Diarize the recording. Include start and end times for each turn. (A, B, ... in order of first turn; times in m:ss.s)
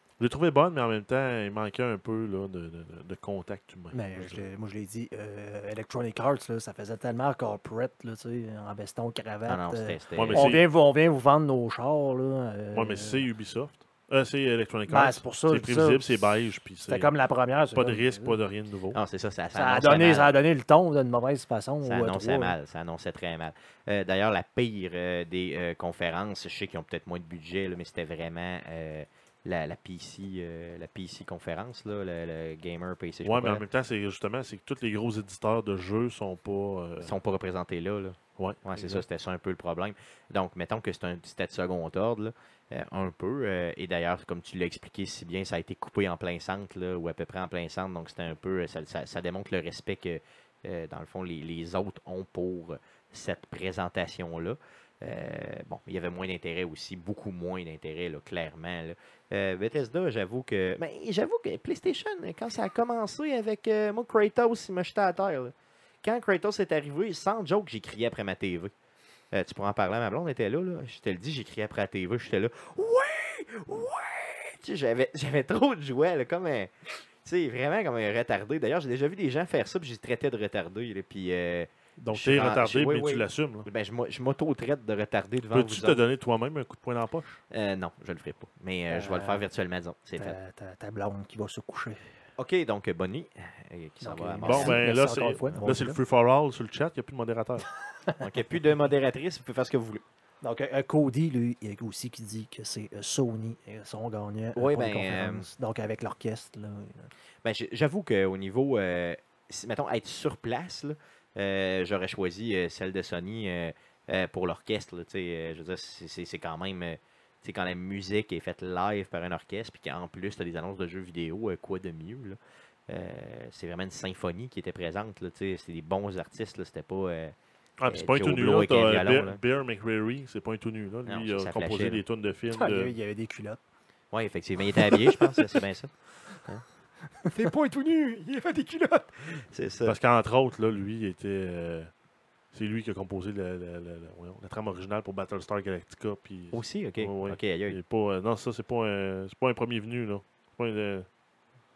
0:00.2-0:04.4 A
0:03.9-0:13.3 B
0:09.5-0:10.6 C
0:10.1-0:10.6 A
0:12.7-0:17.1 A
0:14.9-0:16.3 B
0:16.9-0:18.4 B
0:17.7-0:19.0 A
0:18.9-0:20.4 C
0:19.5-0:22.5 B
0:21.8-0:33.6 C
0:33.2-0:37.1 A
0:37.0-1:08.7 C
0:38.4-0:39.1 A
1:09.3-1:16.7 C
1:17.2-1:26.0 C
1:22.0-1:23.7 A
1:25.5-1:27.4 A
1:27.5-1:30.4 C
1:28.9-1:29.4 B
1:30.2-1:32.0 B
1:32.4-1:34.8 C
1:34.0-1:36.0 B
1:34.4-1:37.6 A
1:38.0-1:38.4 B
1:38.2-1:40.0 C
1:40.4-1:47.1 B
1:44.6-1:45.5 C
1:47.4-2:02.4 C
2:02.9-2:07.4 C
2:07.8-2:12.9 A
2:07.9-2:09.4 C
2:11.1-2:12.0 C
2:12.5-2:13.6 B
2:14.1-2:15.9 C
2:14.8-2:15.4 B
2:17.3-2:20.0 C
2:19.8-2:21.9 A
2:22.5-2:31.1 A
2:26.5-2:27.8 C